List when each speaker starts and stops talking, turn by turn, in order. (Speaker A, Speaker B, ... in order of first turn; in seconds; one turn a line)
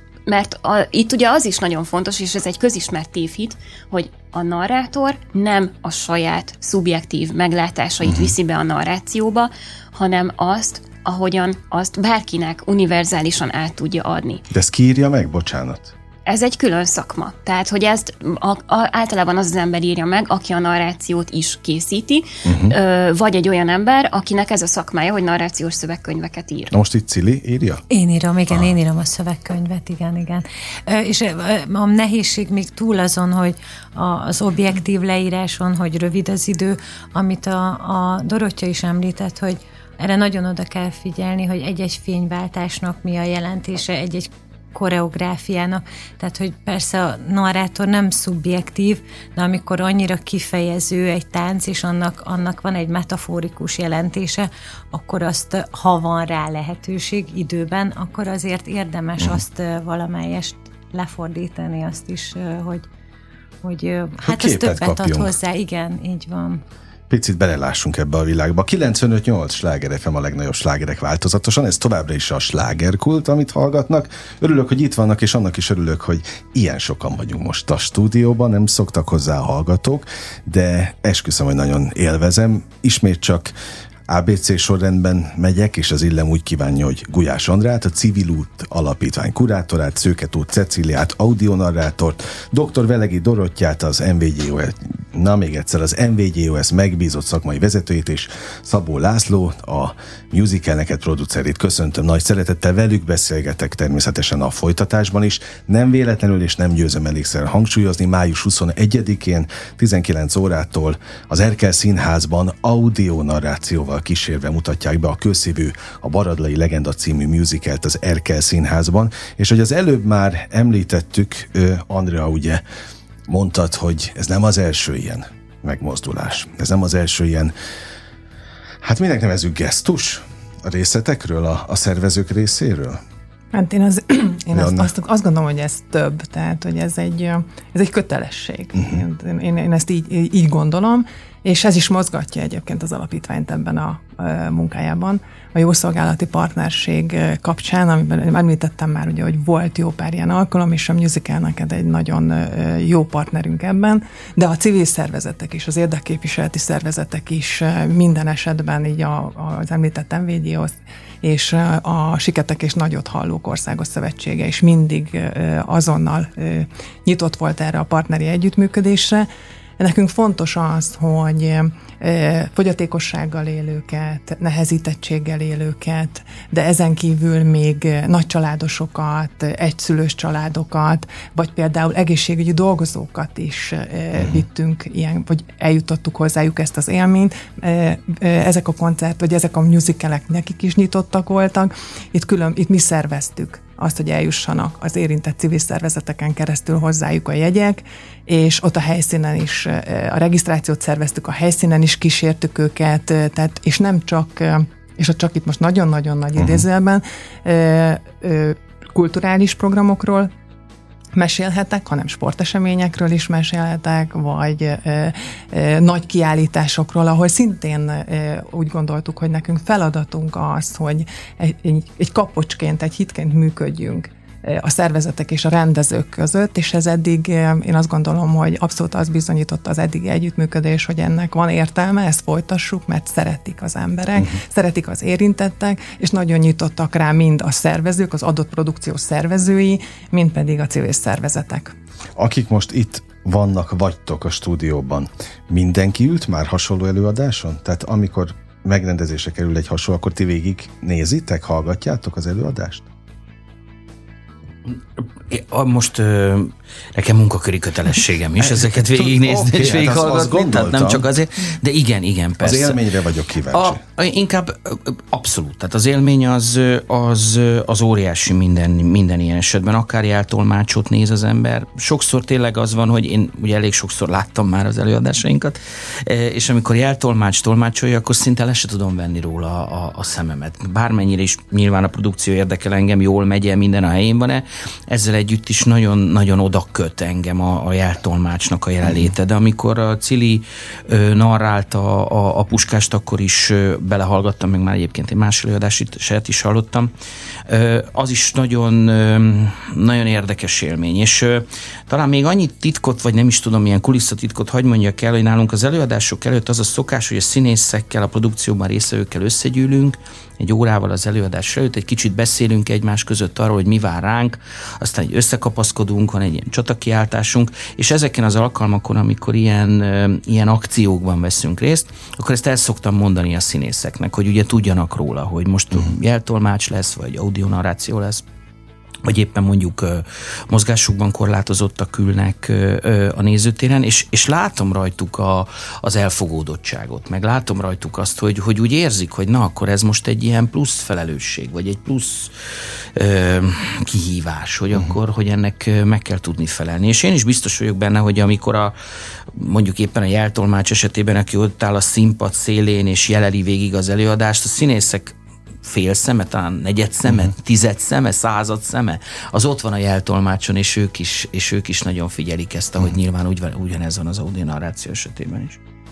Speaker A: 0.2-14.4
Speaker B: 8.0-8.3
Speaker B: 14.5-15.9
Speaker A: 16.3-26.7
Speaker B: 22.4-22.8
Speaker B: 26.7-27.8
Speaker C: 27.9-62.9
Speaker C: 63.6-66.6
Speaker B: 64.2-65.3
Speaker B: 67.1-83.5
Speaker B: 84.1-122.6
Speaker B: 123.3-127.5
Speaker B: 128.8-133.0
Speaker D: 133.5-169.3
Speaker B: 134.5-134.9
Speaker B: 138.8-139.0
Speaker D: 169.8-210.3
Speaker B: 184.2-184.4
Speaker B: 206.4-206.7
Speaker D: 211.1-241.7
Speaker B: 242.2-252.8
Speaker E: 254.7-262.9
Speaker B: 258.4-261.1
Speaker B: 262.4-263.8
Speaker E: 263.5-296.9
Speaker E: 297.5-328.2
Speaker E: 329.0-342.3
Speaker E: 342.9-348.7
Speaker E: 349.3-365.6